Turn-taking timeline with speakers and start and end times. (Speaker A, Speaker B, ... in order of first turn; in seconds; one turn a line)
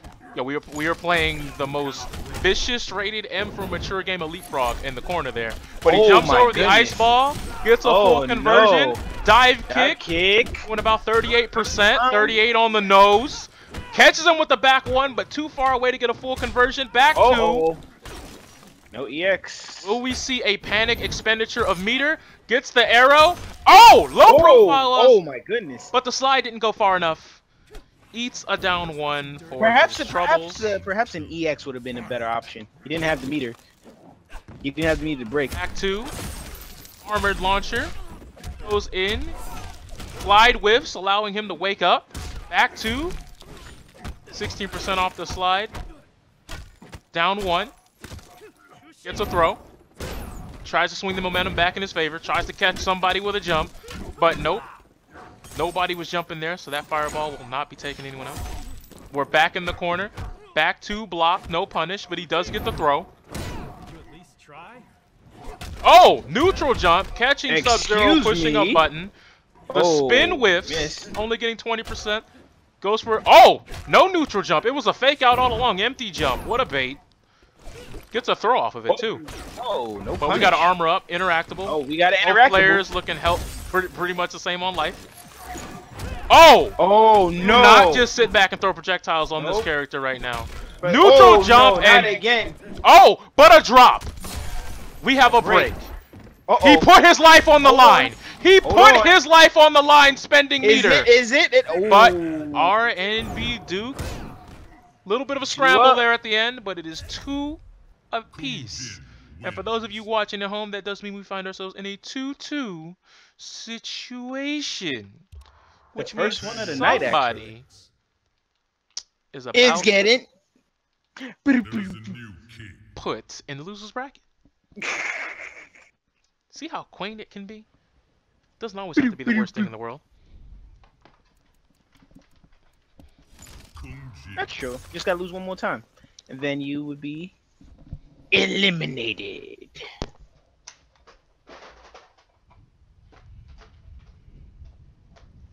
Speaker A: 0.3-10.0
Speaker B: 5.8-7.1
Speaker B: 7.8-9.0
Speaker B: 9.7-10.7
Speaker A: 10.7-17.7
Speaker B: 11.6-12.4
Speaker B: 17.1-17.8
Speaker B: 18.9-20.0
Speaker A: 19.8-25.2
Speaker B: 24.2-25.9
Speaker A: 25.9-27.4
Speaker A: 28.1-30.6
Speaker B: 29.6-33.6
Speaker C: 30.6-31.4
Speaker B: 34.6-35.5
Speaker A: 35.5-36.1
Speaker A: 37.0-37.9
Speaker A: 38.6-39.4
Speaker A: 40.2-43.2
Speaker A: 44.3-45.7
Speaker A: 47.1-47.7
Speaker A: 49.0-49.6
Speaker A: 50.6-54.6
Speaker A: 55.5-58.4
Speaker A: 59.1-63.1
Speaker A: 65.8-69.1
Speaker B: 67.5-68.8
Speaker B: 69.7-71.1
Speaker A: 69.7-72.3
Speaker A: 72.8-77.0
Speaker A: 78.1-79.2
Speaker B: 78.9-80.7
Speaker A: 80.2-85.0
Speaker B: 81.7-82.8
Speaker A: 86.3-86.8
Speaker B: 86.8-88.1
Speaker A: 87.4-92.2
Speaker B: 89.4-89.7
Speaker B: 90.8-92.6
Speaker A: 92.8-94.1
Speaker A: 95.0-95.9
Speaker B: 95.3-95.7
Speaker B: 96.5-96.9
Speaker A: 96.6-101.1
Speaker B: 97.6-98.1
Speaker B: 98.6-99.2
Speaker B: 100.6-102.7
Speaker A: 101.9-104.0
Speaker C: 102.0-102.5
Speaker A: 105.0-115.2
Speaker B: 105.4-106.0
Speaker C: 108.3-110.0
Speaker A: 116.0-117.6
Speaker B: 116.0-117.4
Speaker C: 116.3-117.9
Speaker A: 119.3-120.0
Speaker B: 119.5-120.3
Speaker B: 121.2-122.1
Speaker C: 121.6-122.9
Speaker A: 123.0-124.2
Speaker B: 124.8-125.5
Speaker A: 126.5-127.7
Speaker A: 128.6-130.0
Speaker B: 129.0-129.7
Speaker C: 133.8-134.5
Speaker B: 134.4-137.4
Speaker B: 138.3-139.8